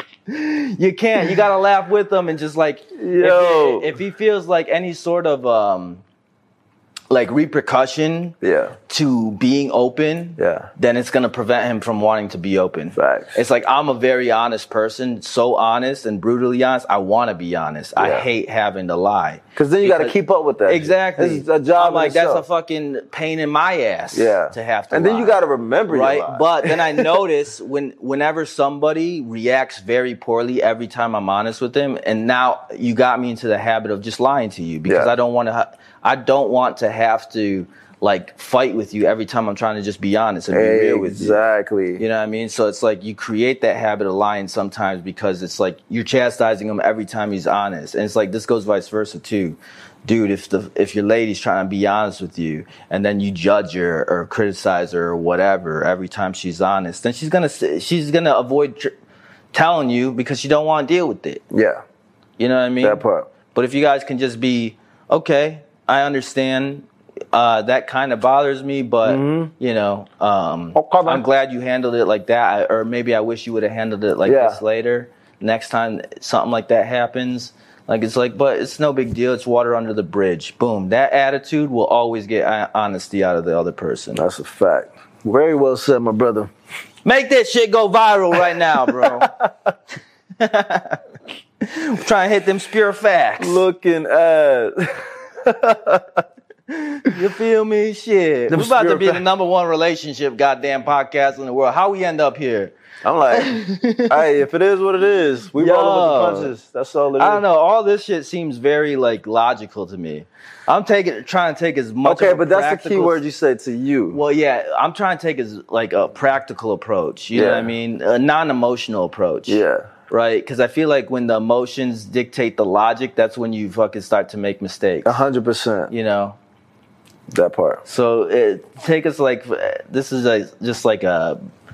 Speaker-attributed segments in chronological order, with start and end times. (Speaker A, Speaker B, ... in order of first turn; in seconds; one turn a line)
Speaker A: 0.3-6.0
Speaker B: 3.0-3.9
Speaker A: 7.1-8.4
Speaker B: 8.4-8.7
Speaker A: 8.9-20.1
Speaker B: 10.4-10.7
Speaker B: 12.9-13.4
Speaker B: 18.0-18.3
Speaker B: 19.6-22.4
Speaker A: 20.7-25.4
Speaker B: 24.1-27.1
Speaker A: 25.9-41.4
Speaker B: 34.9-35.1
Speaker B: 40.5-42.0
Speaker A: 42.0-58.9
Speaker A: 59.5-61.4
Speaker B: 61.5-61.8
Speaker A: 62.4-84.2
Speaker B: 62.8-63.3
Speaker B: 69.0-69.5
Speaker B: 70.7-71.2
Speaker B: 74.2-74.6
Speaker B: 84.1-86.5
Speaker A: 87.0-89.3
Speaker B: 88.9-89.7
Speaker A: 90.4-91.0
Speaker A: 91.6-93.6
Speaker B: 93.4-96.2
Speaker A: 96.8-102.7
Speaker B: 98.5-99.2
Speaker B: 103.0-107.4
Speaker A: 103.3-104.3
Speaker A: 105.6-106.5
Speaker A: 107.2-113.2
Speaker B: 112.0-114.2
Speaker A: 114.1-125.2
Speaker B: 117.3-117.7
Speaker B: 119.5-119.9
Speaker B: 125.0-125.9
Speaker A: 125.9-126.4
Speaker B: 127.3-127.8
Speaker A: 127.8-131.4